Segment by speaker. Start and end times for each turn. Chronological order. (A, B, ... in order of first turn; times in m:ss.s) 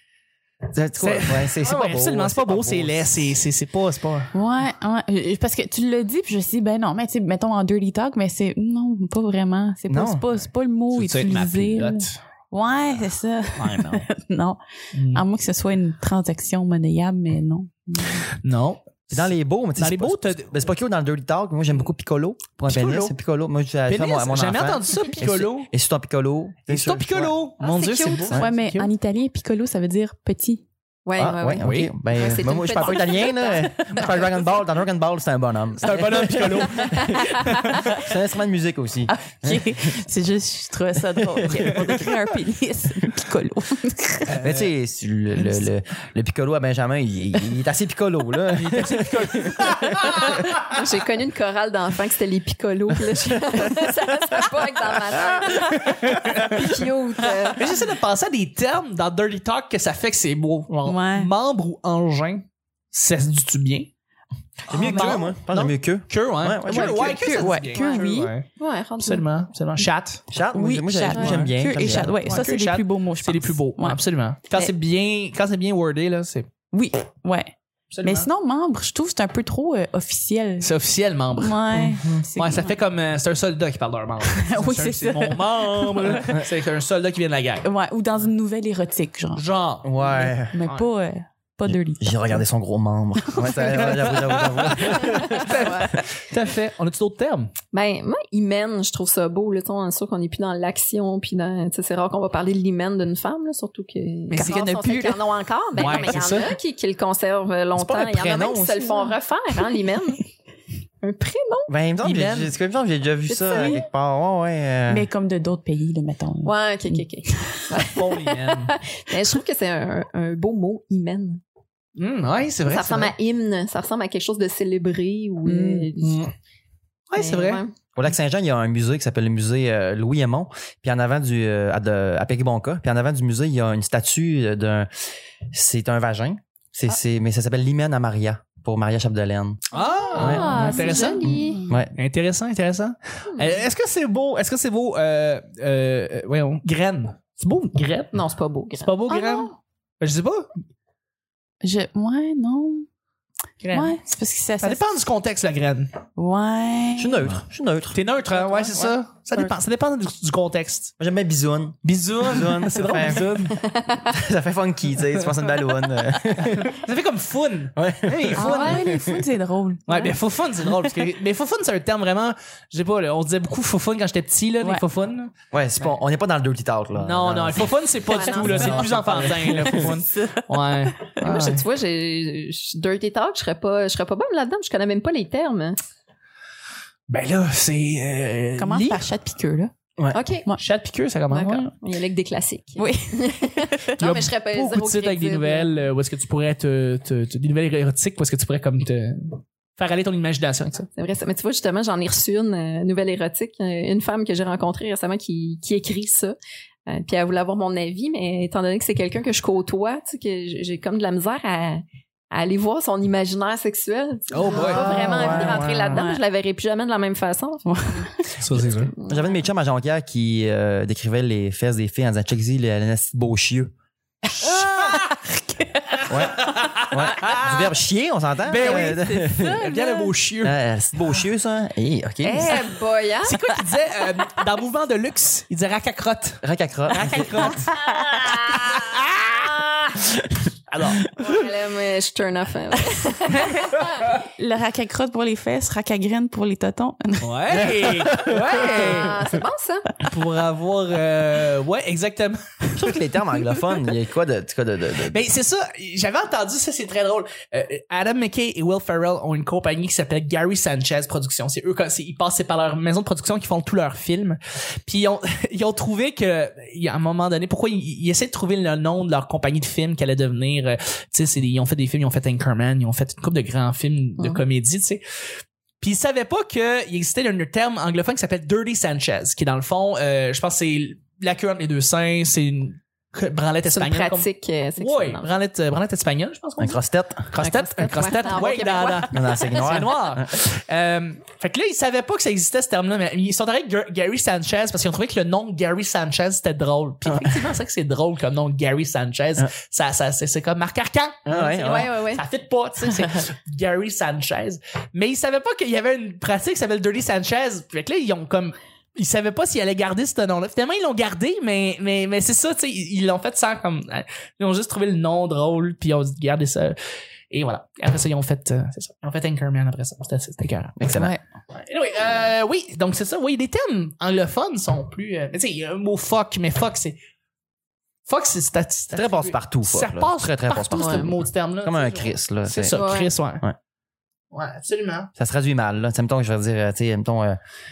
0:00.7-0:03.1 A
0:01.0-0:04.3 B
0:04.3-0:14.6 C
0:09.9-0:10.3 A
0:10.9-0:12.2 B
0:13.6-0:14.1 B
0:15.0-0:15.2 B
0:15.1-0:18.2 C
0:18.2-0:20.7 B
0:19.1-0:27.4 A
0:22.7-0:23.1 B
0:23.9-0:25.7 B
0:26.7-0:28.9 B
0:27.6-0:28.4 D
0:28.4-0:30.6 C
0:31.1-0:33.7 D
0:31.2-0:40.0 A
0:31.6-0:31.9 B
0:33.9-0:34.4 B
0:35.8-0:37.1 B
0:36.2-0:37.1 C
0:39.1-0:44.4 C
0:41.2-0:42.0 A
0:41.5-0:41.9 B
0:44.3-0:44.7 B
0:44.4-0:50.2 A
0:48.5-0:50.4 B
0:50.7-0:57.7 D
0:56.0-0:56.5 B
0:57.5-1:03.9 B
1:00.9-1:01.3 C
1:04.7-1:07.2 A
1:04.7-1:08.5 B
1:04.7-1:05.2 D
1:06.7-1:08.3 C
1:07.5-1:08.0 D
1:08.6-1:09.3 D
1:09.0-1:10.2 B
1:10.3-1:12.4 A
1:10.5-1:14.0 C
1:11.1-1:16.5 B
1:16.7-1:20.7 C
1:17.9-1:18.3 B
1:20.6-1:27.7 B
1:21.4-1:22.8 C
1:21.8-1:22.2 A
1:24.3-1:26.3 C
1:27.6-1:29.4 C
1:29.4-1:30.9 B
1:29.8-1:30.6 A
1:30.1-1:32.4 C
1:31.7-1:35.7 A
1:33.2-1:34.2 C
1:33.7-1:37.5 B
1:35.0-1:36.0 D
1:37.7-1:50.2 D
1:44.3-1:44.7 B
1:44.3-1:45.2 C
1:45.7-1:46.6 B
1:47.8-1:48.9 A
1:51.0-1:51.7 D
1:51.7-1:55.1 A
1:52.0-1:52.5 B
1:53.3-1:53.8 D
1:53.5-1:53.8 C
1:54.9-1:57.5 C
1:56.4-2:01.4 D
1:57.8-1:58.7 B
2:02.0-2:03.1 B
2:02.7-2:06.2 D
2:05.4-2:05.9 C
2:06.0-2:06.3 B
2:07.1-2:07.6 B
2:07.2-2:07.7 D
2:08.0-2:14.9 A
2:15.5-2:19.6 A
2:19.7-2:21.3 B
2:19.7-2:21.6 D
2:20.2-2:20.6 A
2:20.2-2:21.7 C
2:21.2-2:21.9 A
2:22.0-2:28.1 B
2:23.3-2:23.6 D
2:28.1-2:28.9 D
2:28.7-2:30.5 B
2:29.1-2:29.5 C
2:31.6-2:32.9 C
2:33.6-2:34.0 B
2:33.7-2:34.8 C
2:34.6-2:35.9 B
2:36.2-2:37.2 C
2:37.0-2:38.0 A
2:37.9-2:40.9 B
2:38.7-2:39.5 A
2:41.0-2:43.5 A
2:41.8-2:43.6 B
2:43.6-2:44.0 D
2:44.1-2:46.8 A
2:46.4-2:48.8 B
2:47.8-2:49.2 A
2:48.4-2:50.1 C
2:48.4-2:48.8 D
2:49.9-2:56.0 B
2:55.5-2:57.6 A
2:57.0-3:01.6 B
2:58.1-2:59.2 D
2:58.3-2:59.9 A
2:59.2-3:01.1 C
3:01.2-3:05.8 D
3:07.1-3:09.1 B
3:08.6-3:09.7 C
3:10.1-3:10.5 D
3:10.6-3:11.7 B
3:11.3-3:15.7 D
3:12.8-3:14.0 C
3:14.0-3:20.9 B
3:21.0-3:26.4 D
3:26.9-3:39.4 D
3:34.3-3:35.0 B
3:34.6-3:36.2 C
3:34.7-3:36.1 A
3:37.7-3:38.1 C
3:38.4-3:38.9 B
3:39.1-3:43.7 A
3:44.3-3:45.1 B
3:44.4-3:46.1 C
3:46.1-3:47.7 B
3:46.1-3:46.4 A
3:46.9-3:49.6 A
3:48.5-3:50.1 C
3:48.5-3:50.6 B
3:50.4-3:52.6 A
3:52.2-3:53.4 D
3:53.2-3:57.7 B
3:56.4-3:57.6 A
3:57.9-3:58.7 D
3:58.4-3:59.5 B
4:00.7-4:01.0 B
4:01.2-4:03.8 D
4:04.2-4:07.9 C
4:07.2-4:09.2 B
4:08.1-4:08.4 A
4:08.3-4:09.9 D
4:10.0-4:12.4 B
4:12.8-4:15.2 A
4:15.0-4:35.0 B
4:35.8-4:46.8 B
4:43.7-4:45.3 D
4:46.6-4:47.3 A
4:47.3-5:16.8 B
4:47.4-4:49.6 D
4:49.1-4:50.2 A
4:57.1-4:57.4 A
5:01.3-5:01.9 A
5:01.3-5:02.2 D
5:17.3-5:20.9 B
5:20.8-5:21.2 A
5:20.9-5:21.2 C
5:21.5-5:27.0 B
5:28.1-5:33.4 B
5:28.9-5:32.8 A
5:30.7-5:31.1 D
5:32.7-5:33.1 D
5:34.3-5:35.1 B
5:35.2-5:37.4 A